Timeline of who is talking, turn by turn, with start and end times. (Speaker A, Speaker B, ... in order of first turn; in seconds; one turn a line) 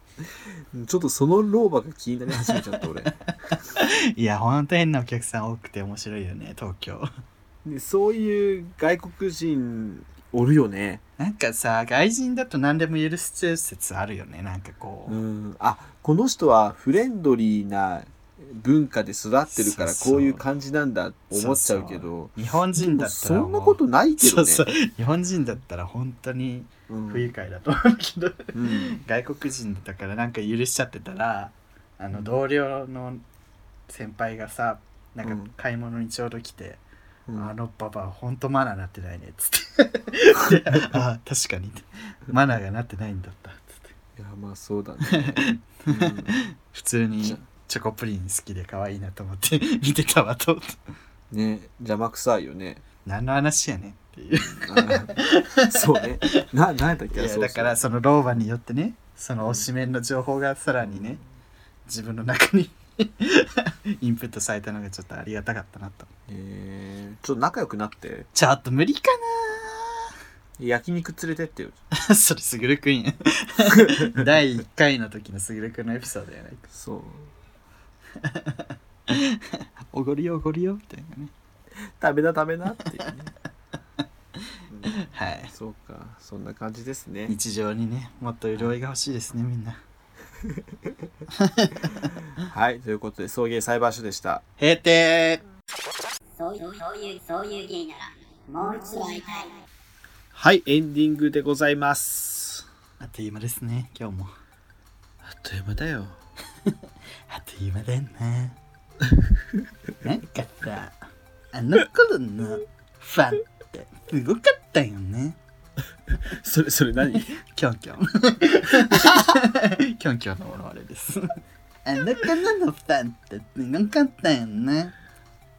Speaker A: 0.2-3.1
Speaker B: 2.4-7.1
Speaker A: 7.6-11.0
Speaker B: 11.2-15.2
Speaker A: 15.1-24.6
Speaker B: 19.5-20.4
Speaker B: 21.3-33.2
Speaker A: 26.9-27.3
Speaker A: 28.5-29.0
Speaker B: 33.9-36.8
Speaker A: 35.2-35.5
Speaker B: 37.4-43.9
Speaker A: 44.1-46.4
Speaker B: 45.1-50.8
Speaker A: 51.3-52.8
Speaker B: 53.0-56.5
Speaker A: 54.5-57.8
Speaker B: 57.1-61.2
Speaker A: 60.8-61.1
Speaker B: 61.9-66.1
Speaker A: 66.3-68.3
Speaker B: 68.3-70.1
Speaker A: 70.6-71.8
Speaker B: 71.9-76.7
Speaker A: 73.8-74.2
Speaker A: 76.7-77.3
Speaker B: 78.2-81.3
Speaker A: 82.0-83.3
Speaker A: 84.7-84.9
Speaker B: 84.9-85.5
Speaker A: 85.5-87.3
Speaker B: 87.3-89.8
Speaker A: 90.5-90.9
Speaker B: 91.4-92.1
Speaker A: 92.4-94.4
Speaker B: 94.6-95.4
Speaker C: 96.4-99.6
Speaker A: 100.3-102.6
Speaker B: 103.0-104.3
Speaker A: 105.2-106.2
Speaker B: 107.3-108.6
Speaker B: 110.0-111.0
Speaker B: 111.5-115.4
Speaker A: 116.1-117.3
Speaker B: 117.3-124.9